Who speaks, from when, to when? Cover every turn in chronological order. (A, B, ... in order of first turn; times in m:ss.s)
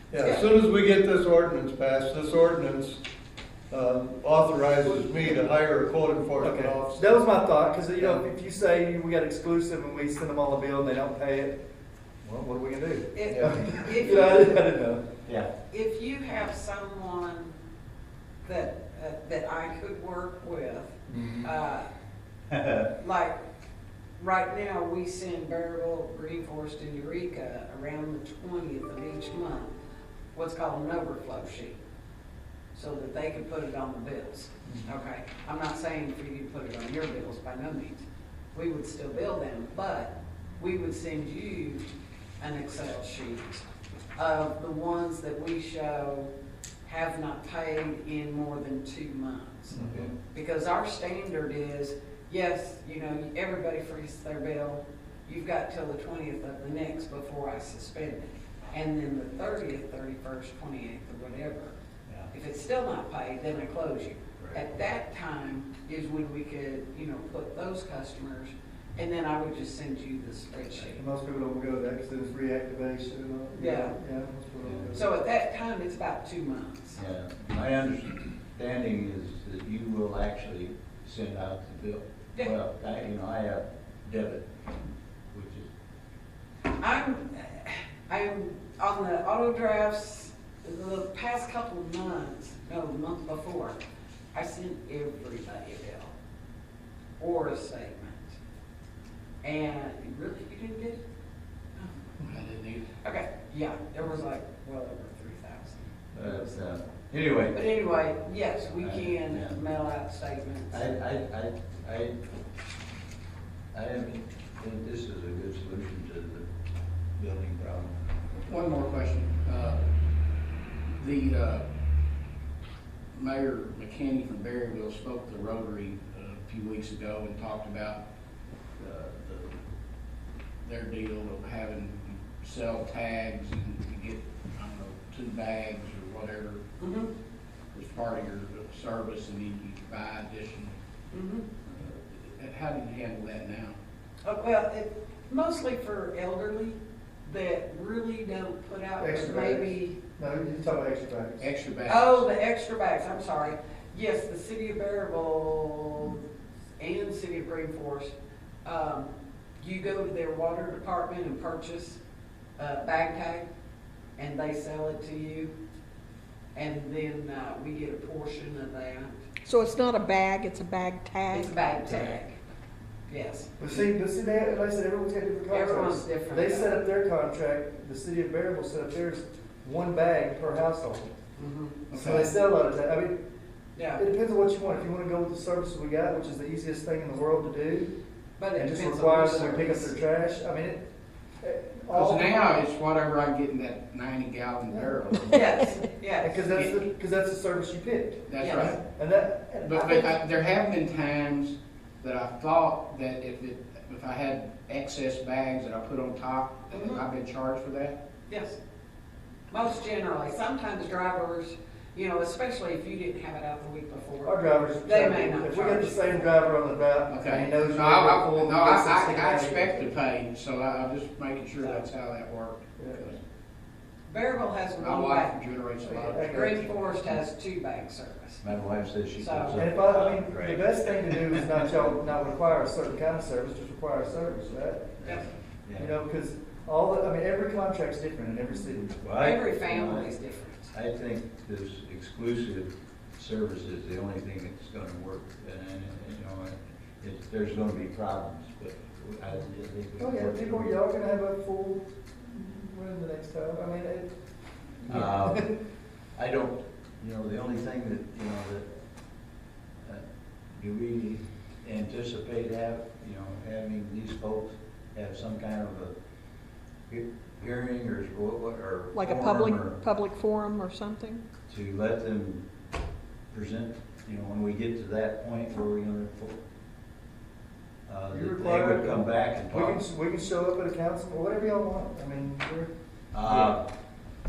0:00.1-0:03.0 A
0:00.2-0:00.5 B
0:03.7-0:07.2 A
0:04.9-0:05.4 C
0:06.4-0:11.6 C
0:07.9-0:08.2 A
0:12.2-0:15.0 C
0:13.1-0:14.7 B
0:13.3-0:13.6 A
0:15.7-0:17.5 B
0:18.4-0:21.9 B
0:21.1-0:21.5 C
0:22.5-0:22.9 D
0:23.0-0:23.4 B
0:24.2-0:29.8 B
0:30.3-0:31.8 B
0:32.7-0:41.8 B
0:42.4-0:43.6 B
0:44.2-0:46.3 B
0:46.8-1:01.8 B
0:49.7-0:50.2 C
1:02.3-1:11.0 B
1:10.8-1:15.1 C
1:13.5-1:13.9 B
1:14.6-1:14.9 D
1:14.9-1:17.0 B
1:17.0-1:24.5 D
1:25.3-1:25.7 D
1:26.8-1:33.8 B
1:34.3-1:36.1 B
1:37.2-1:38.3 B
1:39.4-1:41.0 B
1:41.8-1:42.1 B
1:42.2-1:42.8 E
1:43.0-1:45.9 B
1:46.1-1:47.6 D
1:46.2-1:46.4 C
1:47.5-1:50.8 B
1:48.7-1:49.6 D
1:50.7-1:52.2 D
1:53.7-1:56.4 D
1:57.2-1:58.0 D
1:58.4-1:59.8 E
2:00.9-2:01.6 E
2:03.1-2:08.0 E
2:08.8-2:09.6 E
2:10.6-2:16.6 E
2:16.8-2:17.1 B
2:17.7-2:20.8 E
2:21.1-2:21.4 B
2:21.6-2:23.8 E
2:24.2-2:30.0 B
2:29.0-2:31.5 C
2:31.4-2:32.2 E
2:31.8-2:36.2 B
2:36.8-2:38.1 B
2:38.6-2:42.0 B
2:42.6-2:43.4 B
2:44.2-2:45.5 B
2:46.5-2:49.2 B
2:49.4-2:51.6 F
2:51.3-2:52.4 B
2:53.1-2:53.6 B
2:53.6-3:01.1 C
2:55.5-2:56.8 B
3:01.4-3:02.3 B
3:01.9-3:02.3 E
3:01.9-3:03.2 C
3:03.7-3:04.0 B
3:04.0-3:07.9 C
3:08.4-3:09.9 B
3:08.5-3:10.8 C
3:11.4-3:12.6 C
3:11.9-3:15.4 E
3:14.7-3:15.4 C
3:15.3-3:16.5 B
3:16.2-3:20.1 C
3:16.5-3:16.7 E
3:18.3-3:18.8 E
3:18.4-3:18.8 B
3:19.7-3:28.0 E
3:26.7-3:27.0 B
3:28.3-3:28.6 B
3:29.5-3:36.3 B
3:34.2-3:39.9 C
3:37.1-3:43.2 E
3:41.6-3:41.9 B
3:42.8-3:43.1 C
3:44.1-3:45.4 B
3:44.8-3:46.4 E
3:45.8-3:46.7 C
3:46.2-3:48.5 B
3:48.4-3:51.8 D
3:49.2-3:49.6 B
3:49.6-3:55.0 C
3:55.0-3:55.9 D
3:55.0-3:55.3 B
3:55.8-3:59.0 C
3:59.0-4:00.1 D
3:59.2-4:00.7 B
4:00.7-4:10.7 D
4:10.0-4:14.1 C
4:14.8-4:15.5 C
4:14.9-4:15.4 D
4:16.2-4:18.6 D
4:20.5-4:25.9 D
4:26.9-4:29.8 D
4:28.9-4:31.2 F
4:31.5-4:32.4 D
4:33.3-4:36.4 D
4:37.9-4:39.8 D
4:38.1-4:42.7 C
4:43.1-4:43.6 D
4:43.2-4:43.6 C